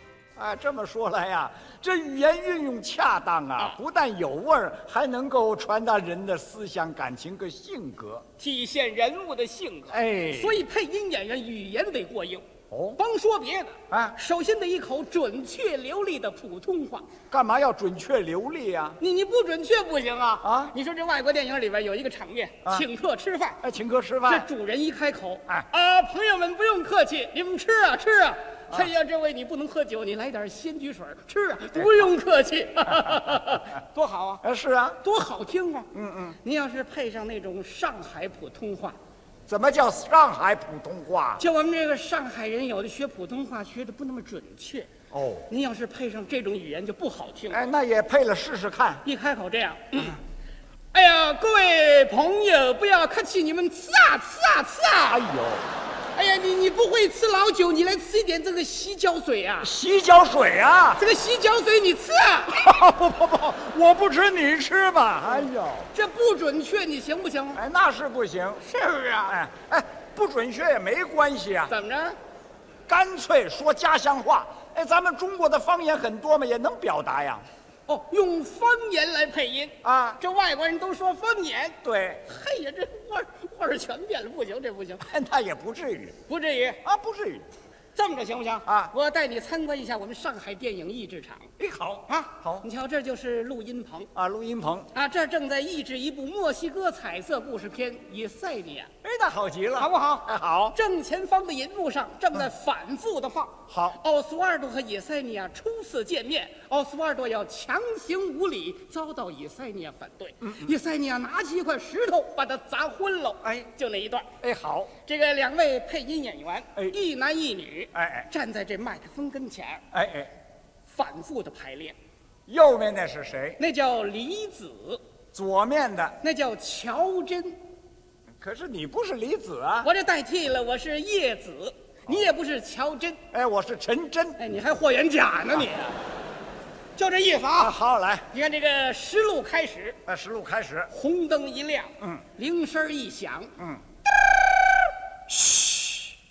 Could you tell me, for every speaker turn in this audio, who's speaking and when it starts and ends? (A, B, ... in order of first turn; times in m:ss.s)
0:00.4-0:08.3 A
0:08.4-0:12.5 B
0:09.9-0:10.6 A
0:12.7-0:13.0 A
0:13.0-0:17.1 B
0:13.9-0:14.2 A
0:17.3-0:19.0 A
0:19.0-0:23.6 B
0:20.4-0:20.7 A
0:23.6-0:24.5 A
0:24.3-0:34.4 B
0:34.4-0:35.0 A
0:35.0-0:35.9 B
0:35.9-0:36.4 A
0:36.4-0:39.0 B
0:39.5-0:41.4 A
0:41.4-0:44.9 B
0:45.1-0:45.5 A
0:45.5-0:47.6 B
0:47.5-0:49.0 A
0:49.0-0:50.2 B
0:50.9-0:55.2 B
0:55.1-0:55.7 A
0:56.1-0:59.7 B
0:59.6-1:01.0 A
1:01.0-1:02.7 B
1:02.5-1:05.9 A
1:05.9-1:07.6 B
1:07.5-1:08.6 A
1:08.6-1:09.4 B
1:09.3-1:11.7 A
1:11.7-1:12.2 B
1:12.9-1:17.4 A
1:17.9-1:25.1 B
1:19.8-1:20.2 A
1:21.8-1:22.2 A
1:25.0-1:26.2 A
1:26.3-1:26.8 B
1:26.8-1:27.5 A
1:28.0-1:31.5 B
1:28.7-1:28.9 A
1:31.6-1:32.7 A
1:32.1-1:34.1 B
1:34.2-1:34.9 A
1:34.9-1:38.9 B
1:39.0-1:40.8 A
1:39.8-1:54.3 B
1:43.7-1:44.0 A
1:54.4-1:54.9 A
1:55.0-1:59.8 B
1:57.9-1:58.3 A
1:59.9-2:00.3 A
2:00.9-2:02.0 B
2:02.5-2:03.6 A
2:03.6-2:05.0 B
2:05.3-2:06.2 A
2:06.2-2:07.6 B
2:08.4-2:09.9 A
2:09.8-2:13.2 B
2:13.3-2:14.4 A
2:14.4-2:16.0 B
2:17.0-2:17.8 B
2:17.6-2:18.3 A
2:18.3-2:20.0 B
2:20.1-2:20.9 A
2:20.9-2:23.5 B